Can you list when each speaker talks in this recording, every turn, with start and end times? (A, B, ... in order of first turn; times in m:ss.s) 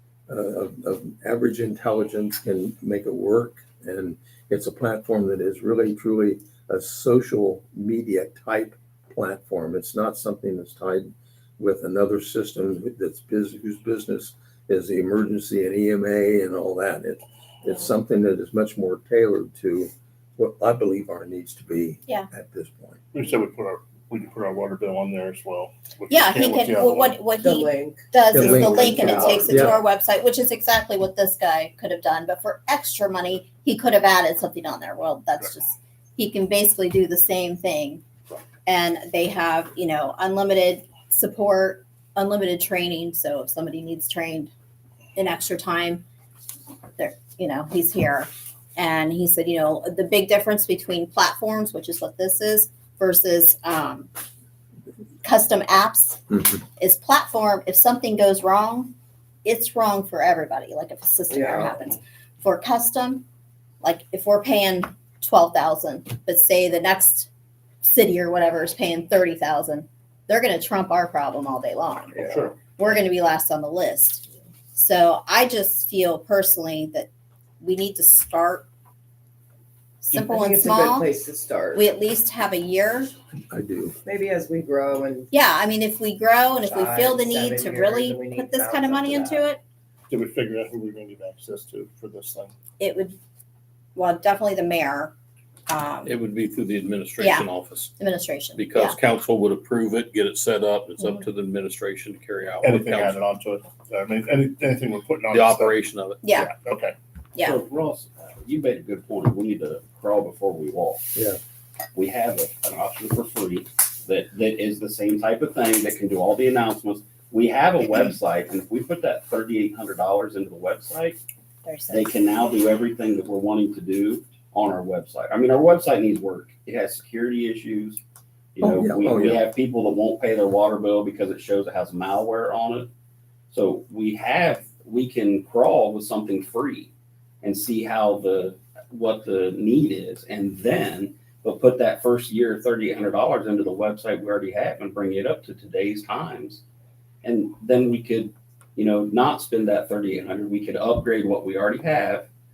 0:00.3-0:23.0 A
0:23.1-0:27.2 B
0:26.1-0:38.0 C
0:27.4-0:29.4 D
0:28.3-0:29.8 A
0:28.4-0:29.7 B
0:38.6-0:44.5 C
0:45.2-0:46.0 C
0:47.0-0:54.1 C
0:55.2-0:58.9 C
0:59.4-1:03.2 C
1:01.3-1:01.8 D
1:03.8-1:07.3 C
1:07.8-1:17.1 C
1:12.2-1:12.6 B
1:17.6-1:18.7 C
1:20.0-1:21.1 C
1:20.2-1:21.8 D
1:21.7-1:23.1 C
1:23.5-1:24.0 A
1:24.0-1:25.3 D
1:25.3-1:29.6 C
1:26.6-1:29.4 D
1:30.1-1:32.5 B
1:32.8-1:33.2 C
1:33.9-1:35.1 C
1:35.7-1:36.2 C
1:36.0-1:37.9 E
1:37.2-1:39.0 C
1:38.6-1:43.2 E
1:42.6-1:45.8 B
1:45.3-1:46.3 E
1:46.2-1:46.5 C
1:46.3-1:46.9 B
1:47.4-1:51.1 F
1:51.9-2:01.2 F
2:01.6-2:02.1 C
2:01.9-2:08.0 F
2:08.6-2:12.9 F
2:08.6-2:09.4 A
2:13.5-2:26.6 F
2:27.2-2:32.2 F